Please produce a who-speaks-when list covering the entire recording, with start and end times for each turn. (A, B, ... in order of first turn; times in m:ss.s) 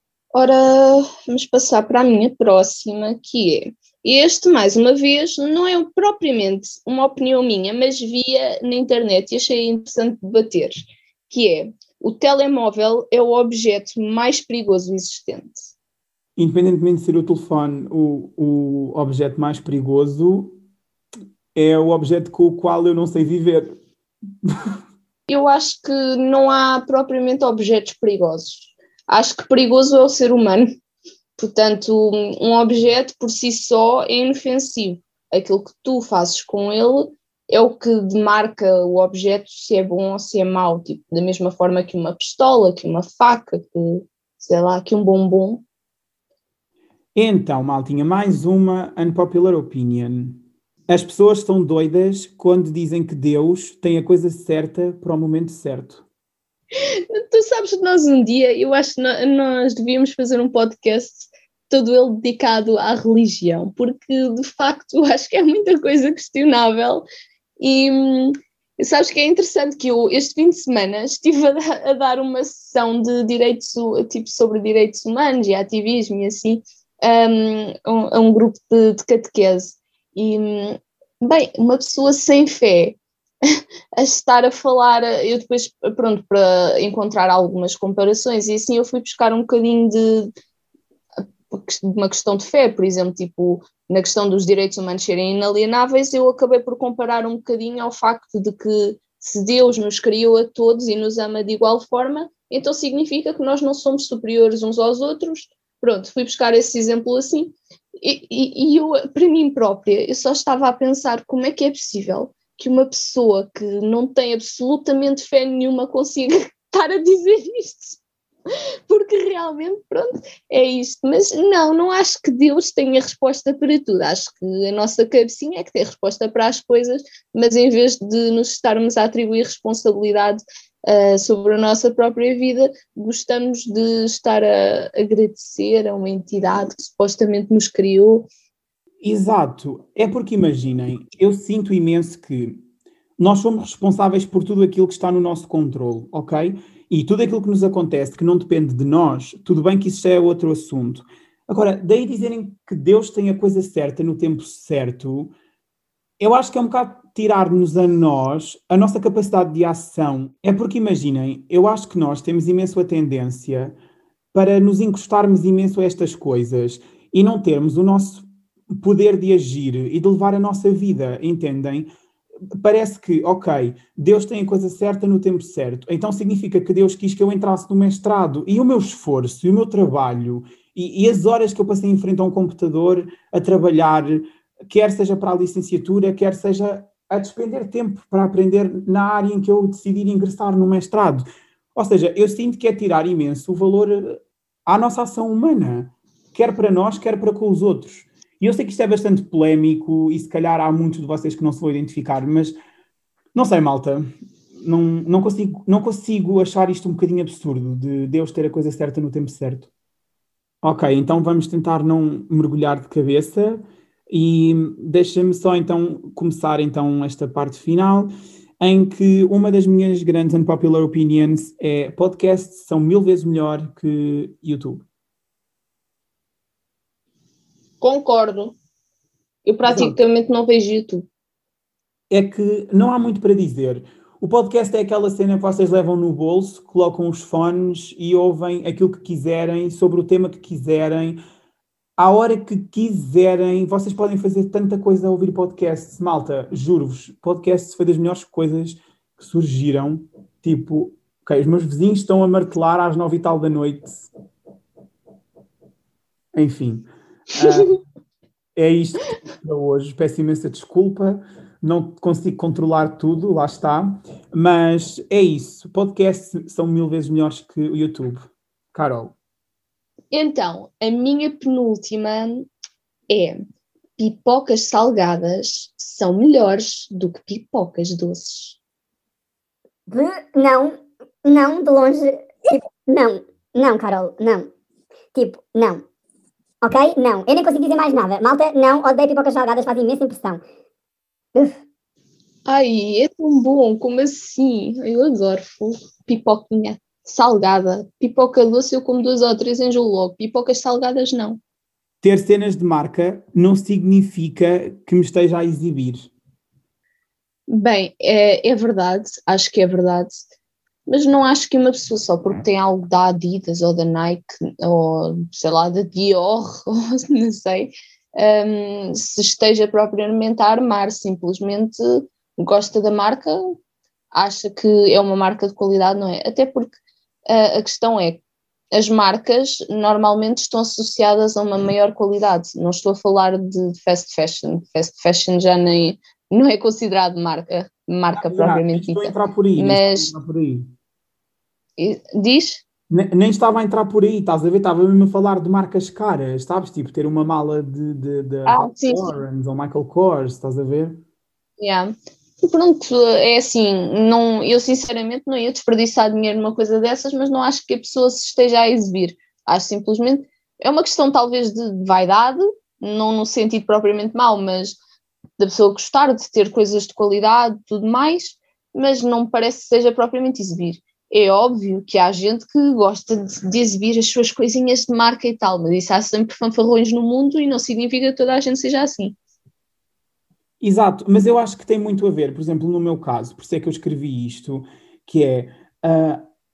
0:00.3-0:15.7 A
0:16.4-0:20.6 B
0:21.6-0:23.8 B
0:24.4-0:24.7 B
0:25.3-0:30.7 A
0:31.4-0:45.6 A
0:47.2-0:56.0 B
0:57.1-1:07.1 A
1:07.6-1:23.0 A
1:24.0-1:30.3 A
1:31.5-1:58.0 A
1:58.9-2:18.3 A
2:19.0-2:22.6 B
2:23.2-2:35.4 B
2:36.2-2:43.8 B
2:44.3-2:51.9 B
2:52.6-3:22.6 B
3:23.4-3:29.7 B
3:30.6-3:44.8 B
3:47.8-3:48.6 A
3:49.5-3:51.1 A
3:49.7-3:50.0 B
3:52.1-4:01.2 B
4:02.0-4:14.1 B
4:16.4-4:17.8 B
4:18.6-4:29.1 B
4:30.1-4:32.5 A
4:33.1-4:33.4 A
4:34.0-4:38.6 A
4:39.9-4:44.5 C
4:45.2-4:45.8 C
4:46.6-4:50.4 C
4:52.5-5:01.4 A
5:02.0-5:06.1 B
5:07.5-5:10.3 A
5:10.9-5:23.4 A
5:24.1-5:26.8 A
5:27.3-5:40.1 A
5:38.2-5:40.7 B
5:41.8-5:42.6 A
5:42.9-5:51.0 B
5:48.5-5:49.2 A
5:51.6-6:04.8 A
6:05.4-6:19.2 A
6:20.6-6:26.3 B